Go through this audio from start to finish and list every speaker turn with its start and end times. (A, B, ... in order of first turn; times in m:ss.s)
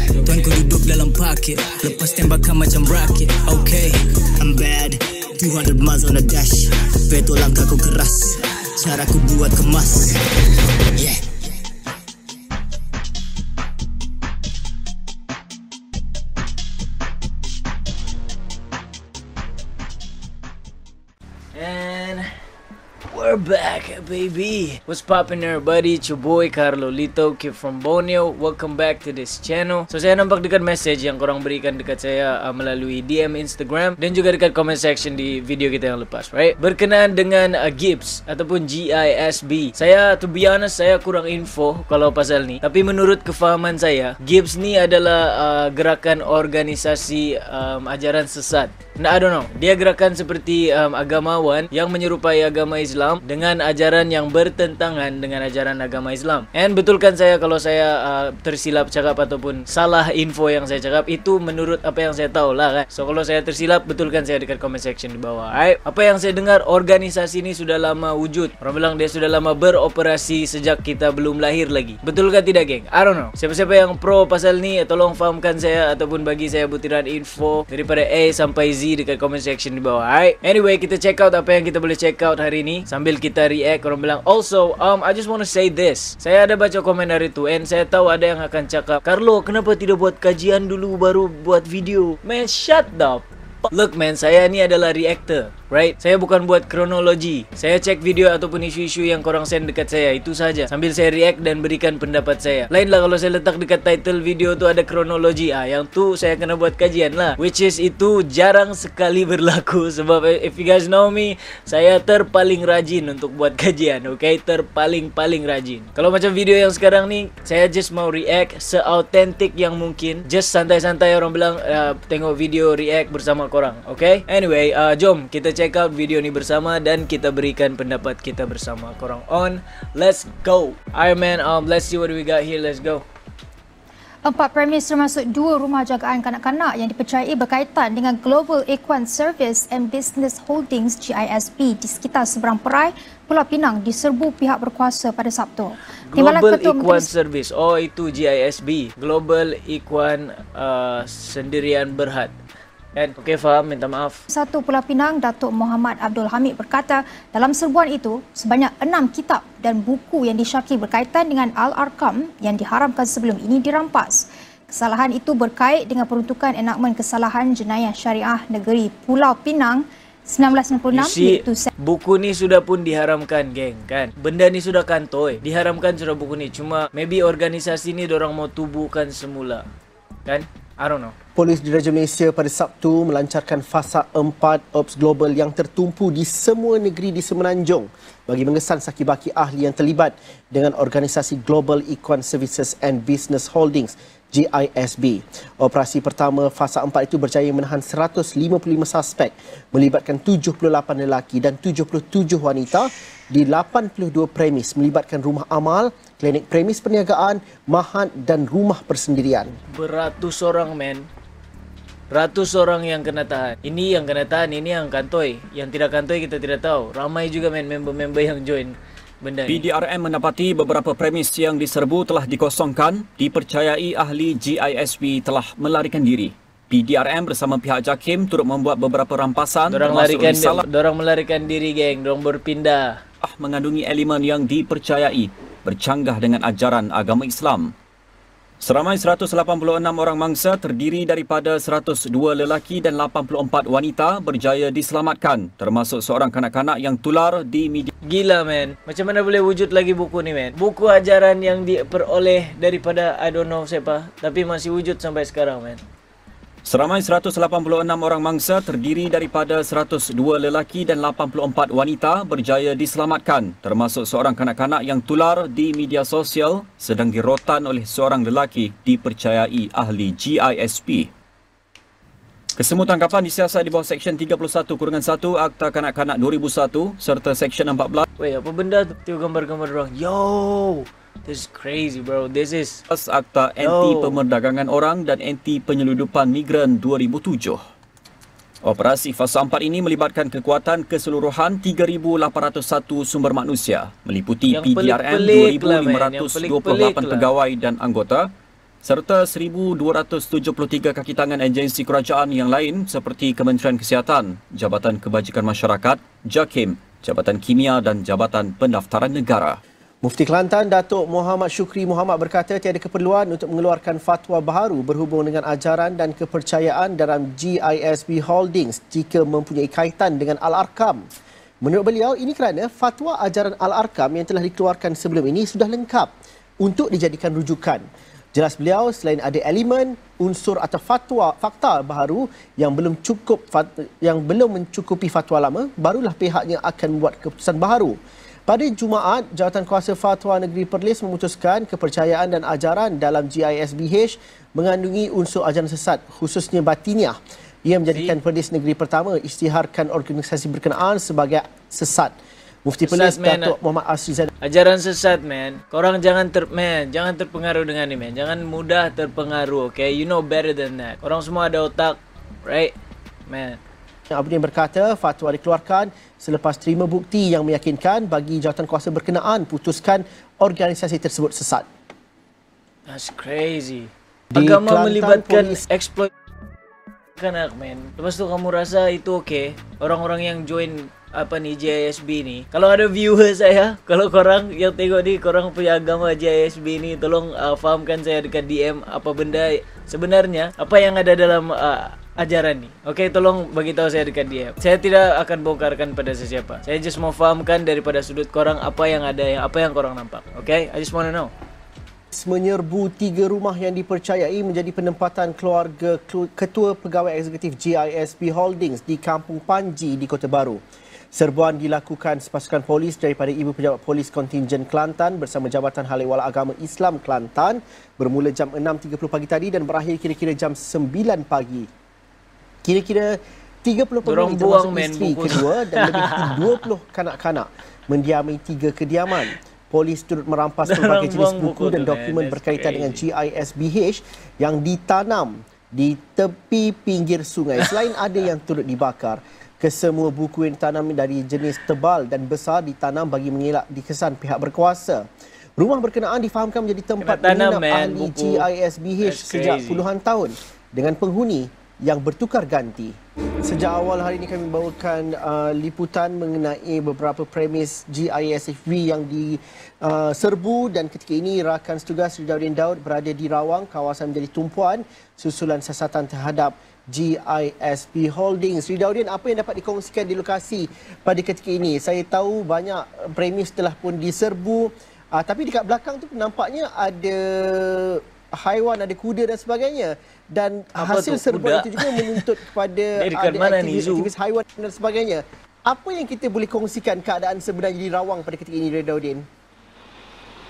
0:00.5-0:04.0 A
0:01.8-0:02.4 B
0:04.4-0:10.2 B
0:11.0-0:11.3 B
0:21.5-0:22.3 A
0:23.1-2:13.0 A
2:14.2-2:27.1 C
2:26.0-2:32.3 A
2:33.0-2:34.2 A
2:34.3-2:51.7 C
2:50.9-2:59.6 A
3:00.3-3:01.2 A
3:01.4-3:29.6 D
3:29.7-3:31.1 A
3:32.1-3:39.7 A
3:39.5-3:50.6 E
3:49.7-3:53.0 A
3:53.2-3:57.7 E
3:58.6-4:07.9 E
4:08.0-4:15.8 A
4:16.6-4:31.1 E
4:32.6-4:38.0 E
4:38.2-4:42.8 A
4:42.9-4:47.6 E
4:43.6-4:44.2 A
4:48.6-4:58.3 E
4:54.5-4:57.3 A
4:58.8-5:09.6 E
5:10.0-5:21.0 D
5:21.6-5:54.3 D
5:52.8-5:53.6 A
5:54.4-6:02.7 A
6:03.3-6:03.6 A
6:04.1-6:11.7 D
6:12.9-6:16.1 A
6:14.3-6:15.6 D
6:17.2-6:41.3 A
6:42.1-6:50.6 D
6:51.1-7:01.7 D
7:02.6-7:25.1 D
7:04.0-7:06.6 A
7:10.6-7:13.0 A
7:25.6-8:09.3 D
7:27.0-7:28.5 A
7:29.0-7:29.8 A
8:00.8-8:02.3 A
8:03.0-8:04.1 A